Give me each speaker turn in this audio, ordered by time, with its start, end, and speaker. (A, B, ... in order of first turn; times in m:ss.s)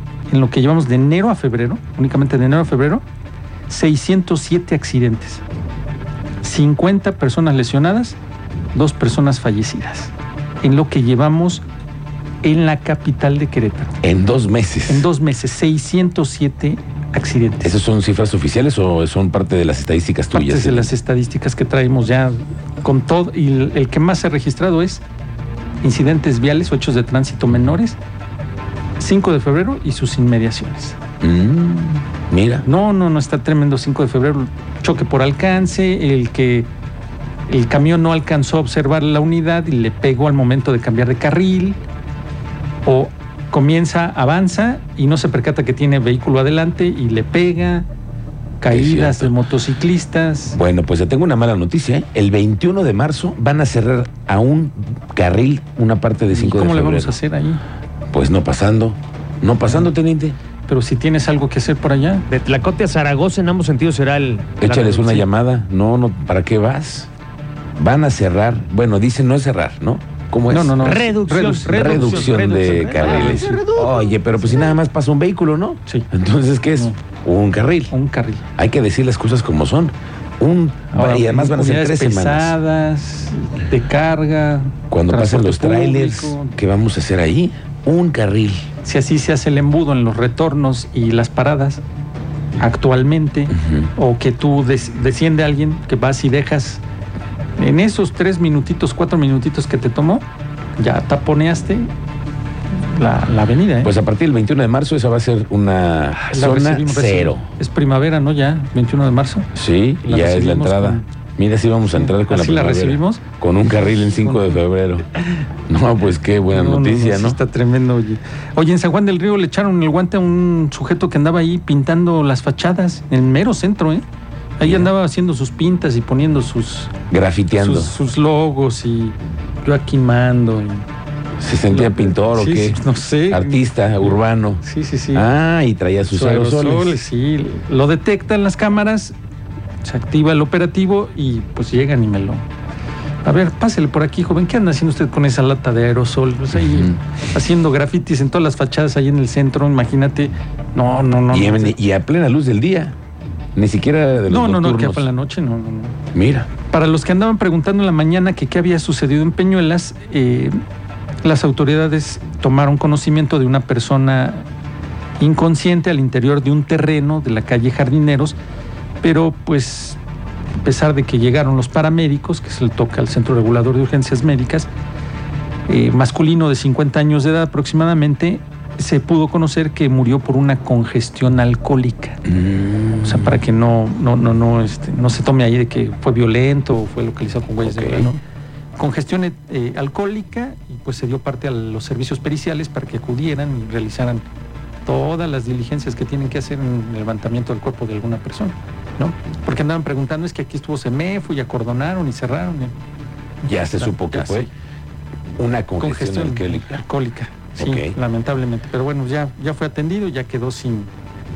0:00.3-0:03.0 A
0:03.7-0:05.4 A
0:06.4-0:08.2 A
0:08.7-0:11.6 A
0:12.4-0:13.9 A
0:14.0-0:15.1 B
0:14.9-0:17.8 A
0:17.6-0:20.9 B
0:20.3-0:25.0 A
0:25.8-0:28.0 A
0:27.5-0:27.8 B
0:29.0-0:31.0 A
0:31.2-0:32.7 B
0:32.6-0:36.7 A
0:37.5-0:41.8 A
0:42.8-0:47.9 A
0:48.6-0:50.6 A
0:48.7-0:49.4 B
0:50.5-0:57.2 B
0:56.3-0:57.6 A
0:58.1-1:00.4 B
1:00.7-1:02.3 A
1:02.3-1:04.6 C
1:04.6-1:07.1 B
1:04.6-1:05.3 A
1:07.8-1:11.0 B
1:10.5-1:13.6 A
1:10.8-1:14.1 C
1:11.6-1:17.9 B
1:17.9-1:18.4 A
1:18.6-1:22.6 B
1:20.9-1:26.6 A
1:24.9-1:28.7 B
1:28.8-1:31.8 A
1:32.6-1:36.8 A
1:37.6-1:40.2 A
1:40.8-1:41.9 A
1:42.7-1:43.9 A
1:43.8-1:47.5 B
1:46.2-1:49.5 A
1:49.6-1:55.0 B
1:50.0-1:51.1 A
1:51.9-1:54.6 A
1:55.7-1:57.4 B
1:56.5-2:04.0 A
2:04.6-2:07.0 A
2:04.6-2:04.9 B
2:07.1-2:08.0 B
2:07.5-2:10.9 A
2:11.4-2:14.6 B
2:11.7-2:15.3 A
2:15.1-2:17.0 B
2:16.1-2:19.2 A
2:19.8-2:22.4 A
2:23.2-2:31.8 A
2:31.3-2:33.0 B
2:33.6-2:35.1 B
2:34.3-2:36.0 A
2:36.1-2:36.5 B
2:36.6-2:40.6 A
2:41.2-2:44.5 A
2:45.2-2:48.4 A
2:49.0-2:50.0 A
2:50.6-2:54.7 A
2:55.7-3:02.2 A
3:02.3-3:03.4 B
3:03.0-3:08.2 A
3:07.6-3:08.1 B
3:08.8-3:14.2 A
3:14.8-3:22.7 A
3:23.4-3:24.5 B
3:23.5-3:24.5 A
3:25.4-3:26.8 B
3:25.8-3:30.9 A
3:27.6-3:28.0 B